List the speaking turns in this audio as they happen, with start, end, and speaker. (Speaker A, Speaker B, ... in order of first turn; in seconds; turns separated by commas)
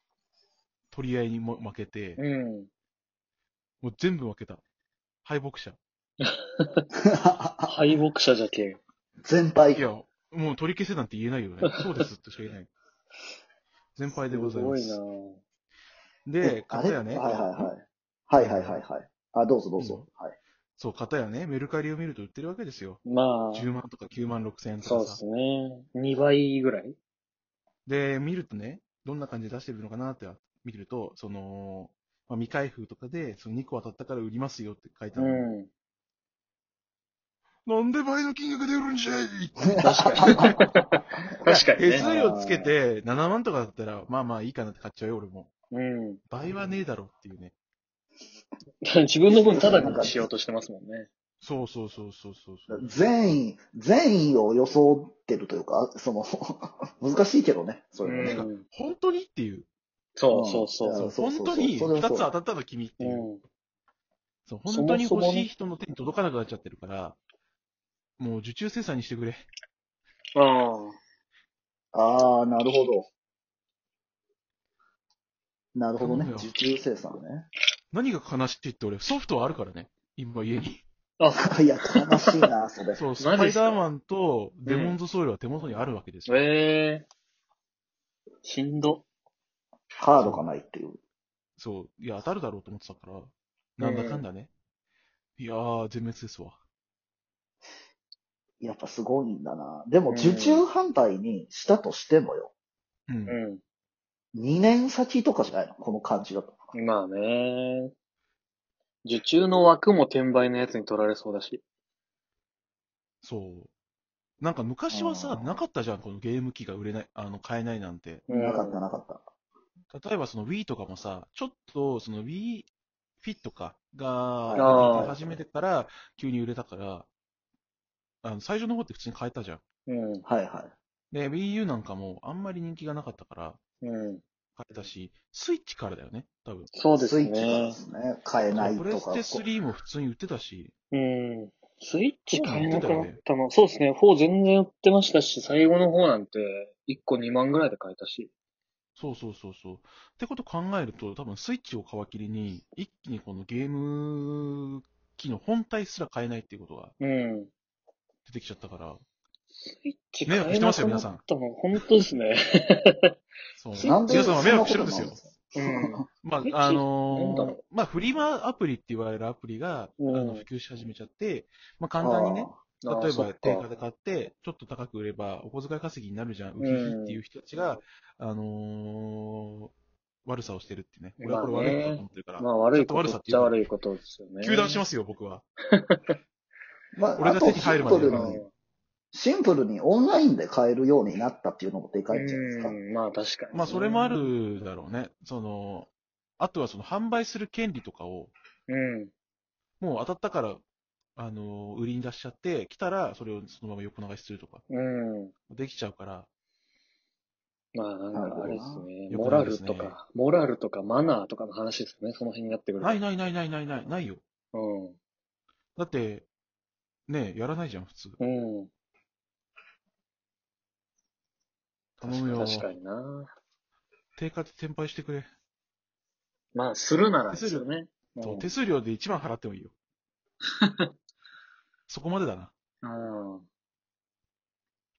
Speaker A: 0.9-2.2, Speaker B: 2.2-2.7, Speaker A: 3.8-4.6, Speaker A: 5.2-5.8, Speaker B: 6.2-6.8, Speaker C: 7.1-7.8, Speaker B: 7.7-8.8, Speaker C: 9.2-9.9, Speaker A: 9.7-12.7, Speaker A: 14.0-15.0, Speaker B: 14.2-15.4, Speaker A: 16.3-17.7, Speaker C: 16.4-20.4, Speaker A: 18.4-18.8, Speaker A: 19.8-20.1, Speaker A: 20.8-25.2, Speaker B: 23.1-23.7, Speaker B: 24.8-27.0, Speaker A: 27.9-35.5, Speaker B: 35.2-35.7, Speaker A: 37.6-40.6, Speaker C: 39.8-40.8, Speaker B: 39.8-42.1, Speaker A: 41.5-45.5, Speaker C: 42.0-42.7, Speaker B: 45.7-46.2, Speaker A: 46.3-47.5, Speaker B: 48.8-51.1, Speaker C: 49.3-50.3, Speaker A: 51.4-53.1, Speaker C: 52.7-58.5, Speaker B: 58.0-58.6, Speaker A: 58.2-59.7, Speaker B: 60.2-61.1, Speaker C: 60.3-62.3, Speaker A: 60.9-63.3, Speaker B: 63.0-63.4, Speaker A: 64.5-67.2, Speaker B: 64.7-65.5, Speaker A: 68.2-69.5, Speaker B: 70.3-71.0, Speaker C: 71.9-73.1, Speaker C: 75.8-77.5, Speaker A: 76.0-76.5, Speaker A: 77.9-80.8, Speaker B: 81.2-82.0, Speaker C: 81.5-83.0, Speaker A: 83.0-86.4, Speaker B: 83.2-83.8, Speaker B: 84.7-85.0, Speaker B: 86.3-87.1, Speaker B: 88.4-89.0, Speaker C: 90.0-91.0, Speaker A: 90.2-90.5, Speaker A: 91.6-94.5, Speaker B: 93.8-94.2, Speaker A: 95.4-96.6, Speaker C: 98.6-102.5, Speaker B: 100.1-100.7, Speaker A: 103.1-103.4, Speaker B: 103.3-103.6, Speaker C: 104.3-106.7, Speaker B: 106.7-107.9, Speaker B: 109.0-111.6, Speaker A: 113.2-113.7, Speaker A: 114.4-118.3, Speaker C: 114.9-115.6, Speaker B: 118.3-118.8, Speaker C: 118.3-119.2, Speaker A: 119.9-122.7, Speaker A: 123.2-127.1, Speaker C: 124.5-125.4, Speaker B: 124.6-125.2, Speaker A: 128.2-129.6, Speaker B: 129.9-130.2, Speaker C: 130.3-130.7, Speaker A: 131.1-133.6, Speaker B: 133.8-134.2, Speaker A: 134.6-136.7, Speaker B: 136.7-137.8, Speaker C: 137.0-139.4, Speaker A: 138.5-140.7, Speaker B: 140.9-148.3, Speaker A: 142.3-143.2, Speaker A: 149.0-156.9, Speaker B: 157.0-157.5, Speaker A: 158.3-159.0, Speaker B: 159.6-163.1, Speaker A: 160.3-161.2, Speaker A: 163.6-165.2, Speaker B: 163.8-164.7, Speaker C: 163.8-166.1, Speaker B: 165.6-167.6, Speaker A: 166.2-179.7, Speaker B: 170.0-170.4, Speaker C: 172.0-172.6, Speaker B: 172.8-173.7, Speaker B: 176.6-177.2, Speaker A: 180.2-183.6, Speaker B: 181.2-184.8, Speaker A: 184.4-185.4, Speaker B: 185.8-186.2, Speaker C: 186.9-188.4, Speaker A: 187.2-188.4, Speaker B: 188.0-188.5, Speaker C: 189.1-192.8, Speaker B: 192.1-194.2, Speaker A: 193.5-198.3, Speaker B: 198.7-199.1, Speaker A: 199.8-200.6, Speaker A: 201.2-204.6, Speaker B: 204.7-205.3, Speaker A: 205.5-206.3, Speaker B: 207.7-213.0, Speaker C: 208.1-208.9, Speaker A: 209.1-210.0, Speaker A: 212.8-214.2, Speaker B: 214.5-215.0, Speaker A: 215.8-216.3, Speaker A: 217.1-218.2, Speaker B: 218.2-218.7, Speaker A: 222.0-222.7, Speaker B: 222.0-223.3, Speaker A: 224.2-225.3, Speaker B: 226.5-228.5, Speaker A: 227.3-227.7, Speaker A: 228.2-229.7, Speaker B: 230.6-230.9, Speaker A: 231.9-232.5, Speaker B: 232.8-233.4